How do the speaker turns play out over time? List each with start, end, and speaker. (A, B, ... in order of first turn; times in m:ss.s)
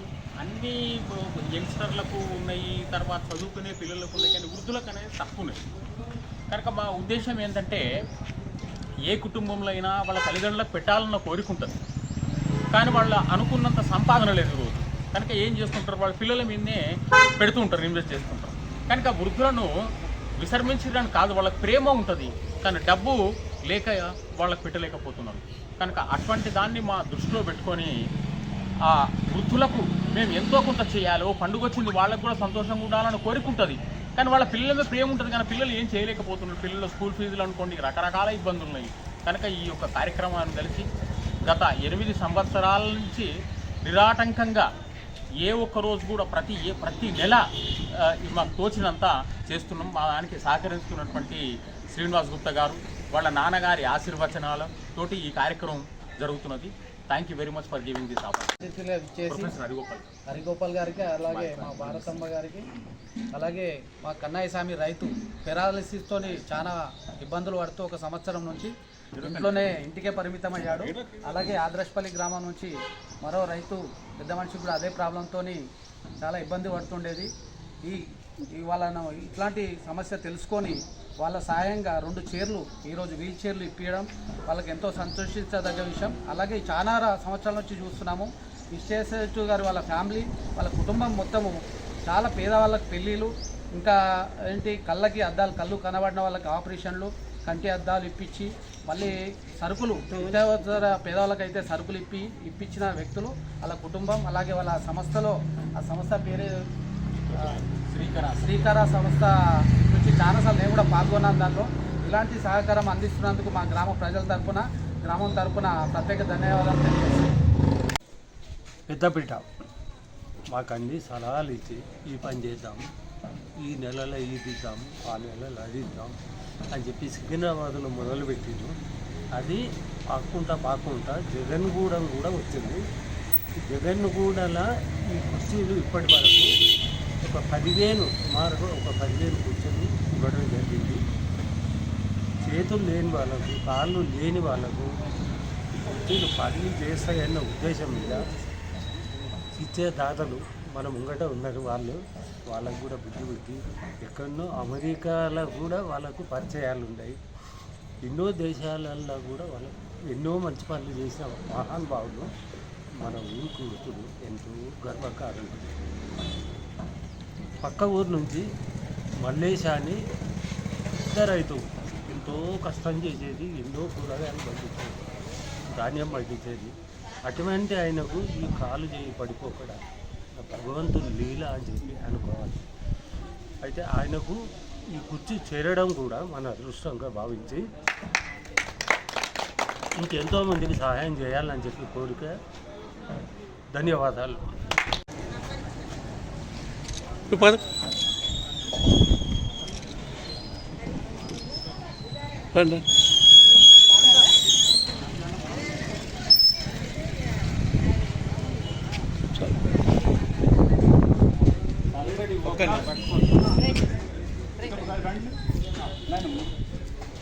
0:00.4-0:05.6 A
0:06.5-0:07.8 A
0:09.0-0:11.8 A
0:12.7-0:16.8 A
0:17.4-0:19.7 A
0:20.4-0:27.9 A
0:28.8-0:40.8 A
0:41.4-0:43.3 A
0:43.8-0:44.7 A
0:45.4-0:47.4 A
0:48.0-0:58.5 A
0:58.6-0:59.5 B
0:59.3-1:00.1 A
1:00.3-1:02.6 B
1:01.3-1:02.2 A
1:03.3-1:15.6 B
1:09.2-1:09.7 A
1:10.7-1:11.4 C
1:16.2-1:17.3 B
1:17.8-1:34.0 B
1:34.5-1:46.5 B
1:47.3-1:47.6 B
1:47.3-1:48.7 A
1:48.4-1:57.3 B
1:58.9-1:59.4 D
2:00.5-2:02.8 D
2:03.6-2:06.1 D
2:06.7-2:08.7 D
2:09.4-2:09.6 D
2:10.1-2:12.8 D
2:13.6-2:16.5 D
2:17.2-2:21.0 D
2:22.4-2:24.9 D
2:25.7-2:28.2 D
2:29.6-2:37.2 D
2:38.0-2:42.3 D
2:43.0-2:45.7 D
2:47.6-2:48.4 D
2:49.2-2:50.0 D
2:51.0-2:55.1 D
2:55.7-2:56.7 D
2:57.2-2:59.8 D
3:00.4-3:02.6 D
3:03.6-3:04.4 D
3:04.9-3:07.6 D
3:10.0-3:12.3 D
3:13.7-3:14.4 D
3:31.9-3:33.7 C
3:34.6-3:35.3 C
3:36.0-3:36.5 C